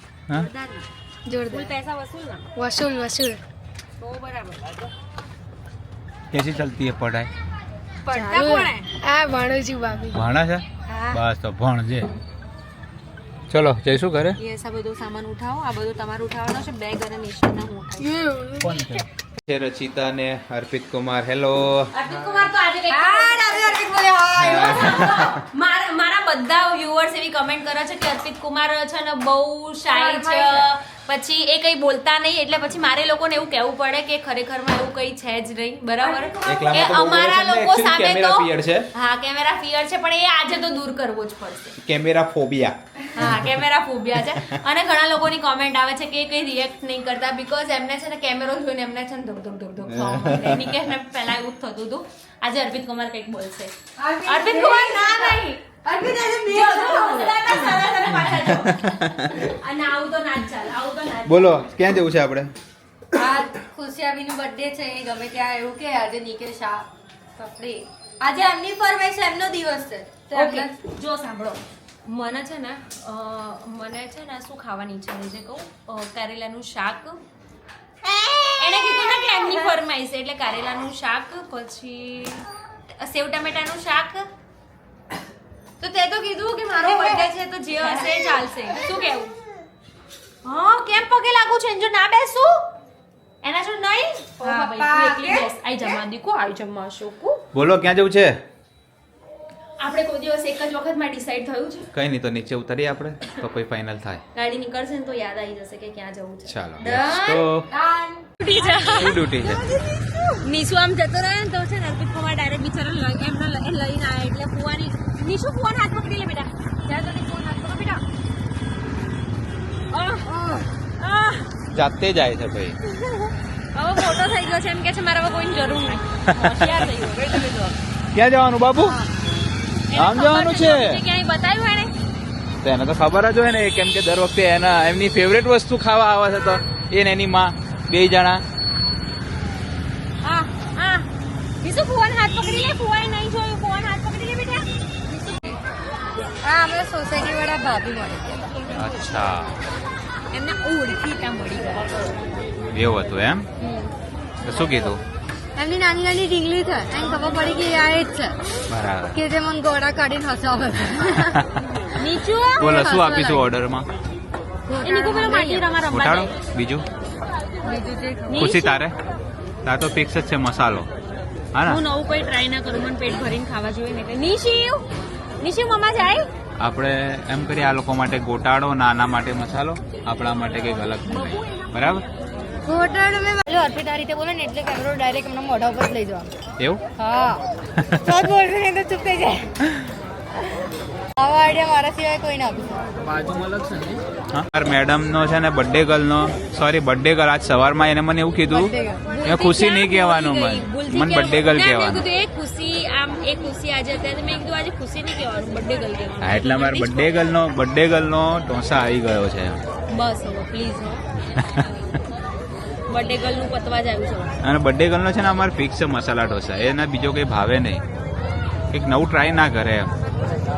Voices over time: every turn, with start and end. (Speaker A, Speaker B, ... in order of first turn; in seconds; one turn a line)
Speaker A: 0.3-0.9
Speaker B: 1.3-1.7
Speaker A: 1.4-2.5
Speaker B: 2.5-3.4
Speaker A: 4.0-4.7
Speaker C: 6.3-7.3
Speaker A: 8.1-8.9
Speaker D: 8.2-8.6
Speaker B: 8.4-10.2
Speaker C: 10.1-12.1
Speaker C: 13.5-14.4
Speaker A: 14.4-18.2
Speaker B: 18.1-18.7
Speaker C: 18.6-21.9
Speaker A: 21.9-41.8
Speaker D: 22.9-25.2
Speaker C: 24.4-25.3
Speaker D: 29.9-30.7
Speaker D: 36.0-37.0
Speaker C: 36.5-38.9
Speaker C: 41.8-42.8
Speaker A: 43.1-53.7
Speaker C: 49.9-50.7
Speaker D: 54.0-57.6
Speaker A: 54.3-55.6
Speaker A: 56.5-61.7
Speaker C: 61.3-62.5
Speaker D: 63.1-66.8
Speaker D: 67.3-70.8
Speaker A: 70.3-77.2
Speaker A: 78.5-84.3
Speaker A: 85.8-89.3
Speaker D: 86.8-87.2
Speaker D: 87.8-88.4
Speaker A: 90.4-92.7
Speaker A: 93.4-97.4
Speaker D: 94.4-95.5
Speaker C: 97.5-98.4
Speaker A: 99.8-101.9
Speaker C: 101.9-104.2
Speaker A: 104.3-107.5
Speaker C: 106.5-107.7
Speaker D: 107.7-110.5
Speaker A: 108.4-109.2
Speaker C: 108.9-109.6
Speaker A: 110.4-116.5
Speaker D: 116.9-117.8
Speaker A: 117.7-117.9
Speaker A: 119.9-120.3
Speaker D: 120.2-120.7
Speaker A: 121.0-121.5
Speaker C: 121.7-122.8
Speaker A: 123.1-127.8
Speaker C: 126.3-126.7
Speaker C: 128.1-129.0
Speaker A: 129.9-131.9
Speaker C: 129.9-131.0
Speaker C: 132.6-138.4
Speaker A: 140.2-141.1
Speaker A: 141.6-145.4
Speaker D: 146.4-148.3
Speaker C: 148.8-149.5
Speaker A: 150.3-152.0
Speaker C: 152.7-153.5
Speaker D: 153.6-153.9
Speaker C: 154.4-155.0
Speaker D: 155.6-158.3
Speaker C: 158.7-159.2
Speaker D: 159.1-161.4
Speaker A: 161.9-163.5
Speaker C: 162.6-163.9
Speaker D: 162.6-163.1
Speaker D: 164.7-165.7
Speaker A: 164.8-166.3
Speaker C: 165.9-166.9
Speaker D: 167.6-168.4
Speaker A: 168.3-168.8
Speaker C: 168.3-169.0
Speaker C: 169.7-170.9
Speaker C: 171.5-171.8
Speaker A: 171.6-174.9
Speaker A: 175.4-176.3
Speaker C: 176.6-182.1
Speaker D: 182.7-186.3
Speaker D: 187.0-187.4
Speaker C: 187.8-188.2
Speaker D: 188.0-189.5
Speaker D: 191.2-192.9
Speaker C: 193.2-202.1
Speaker D: 198.5-199.0
Speaker A: 199.1-207.3
Speaker C: 206.2-209.6
Speaker A: 209.9-211.1
Speaker C: 211.4-211.7
Speaker A: 212.9-214.4
Speaker C: 214.4-217.8
Speaker C: 218.7-219.9